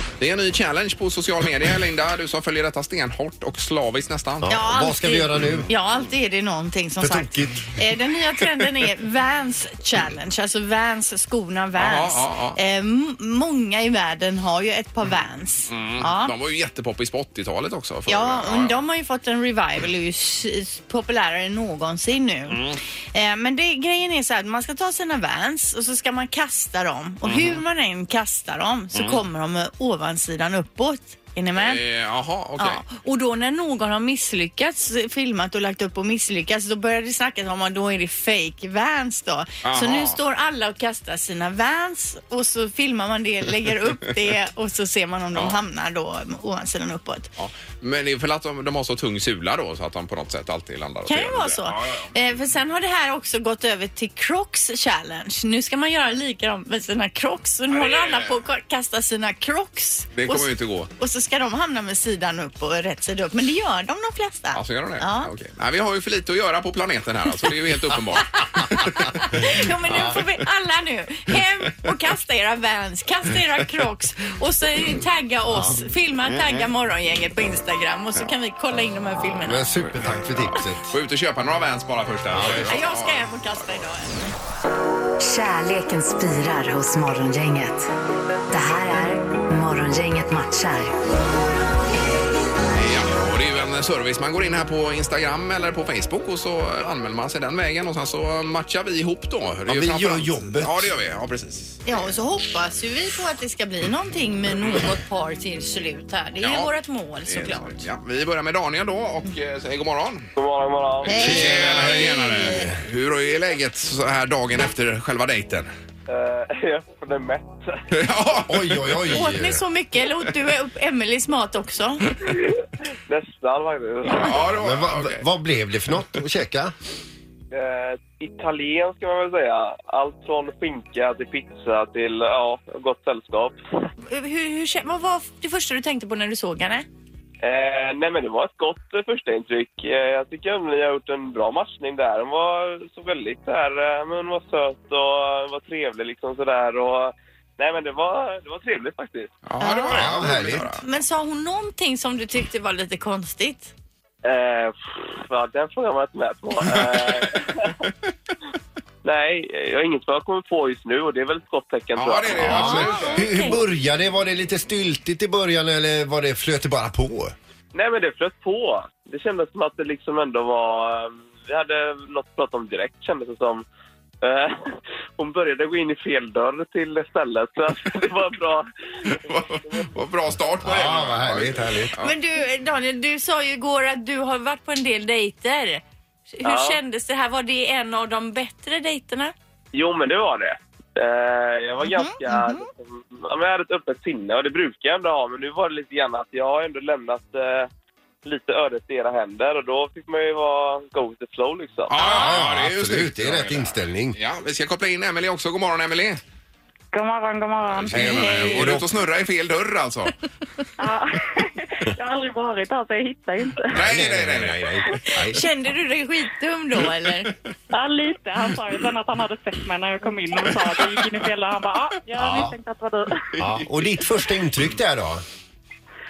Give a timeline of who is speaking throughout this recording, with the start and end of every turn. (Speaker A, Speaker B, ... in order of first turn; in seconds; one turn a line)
Speaker A: 0.2-4.5
Speaker B: 4.4-5.7
Speaker C: 4.5-16.3
Speaker B: 7.0-7.7
Speaker A: 11.8-12.6
Speaker A: 15.7-18.8
Speaker C: 18.1-31.8
Speaker A: 22.5-22.8
Speaker A: 27.2-27.6
Speaker A: 28.9-29.2
Speaker A: 31.6-32.8
Speaker C: 32.6-47.3
Speaker A: 39.6-40.2
Speaker A: 47.4-52.1
Speaker C: 51.1-65.3
Speaker A: 57.7-58.4
Speaker A: 60.2-60.9
Speaker A: 64.5-69.5
Speaker C: 68.2-79.7
Speaker B: 79.3-80.9
Speaker A: 79.9-83.8
Speaker B: 82.3-82.7
Speaker C: 82.6-84.3
Speaker D: 85.2-87.9
Speaker D: 88.5-90.9
Speaker A: 92.7-102.0
Speaker B: 99.7-100.9
Speaker C: 101.9-107.9
Speaker A: 106.4-106.7
Speaker A: 107.3-110.3
Speaker E: 110.4-111.4
Speaker C: 111.1-112.7
Speaker A: 111.1-115.7
Speaker B: 111.1-112.8
Speaker E: 116.1-117.8
Speaker A: 117.9-119.1
Speaker B: 118.5-119.6
Speaker C: 119.1-122.1
Speaker E: 122.3-124.4
Speaker A: 124.1-125.2
Speaker B: 124.3-126.7
Speaker E: 127.5-133.6
Speaker C: 134.1-136.9
Speaker E: 137.4-149.3
Speaker A: 149.5-150.8
Speaker C: 149.6-150.1
Speaker B: 149.9-150.8
Speaker C: 150.8-153.7
Speaker E: 154.2-157.9
Speaker E: 159.0-162.9
Speaker A: 161.9-163.3
Speaker B: 162.4-167.3
Speaker C: 162.5-163.6
Speaker E: 167.7-173.6
Speaker E: 174.2-179.9
Speaker A: 179.3-182.1
Speaker B: 180.6-181.9
Speaker C: 182.0-189.3
Speaker E: 186.4-186.8
Speaker E: 189.7-197.7
Speaker C: 191.8-192.7
Speaker E: 198.2-202.0
Speaker A: 201.9-206.2
Speaker B: 202.0-204.2
Speaker F: 206.9-208.7
Speaker A: 207.8-210.2
Speaker B: 207.9-208.9
Speaker F: 210.8-213.8
Speaker B: 213.7-215.4
Speaker A: 213.7-214.7
Speaker C: 215.2-217.3
Speaker F: 217.7-223.3
Speaker B: 222.2-222.6
Speaker B: 223.4-225.2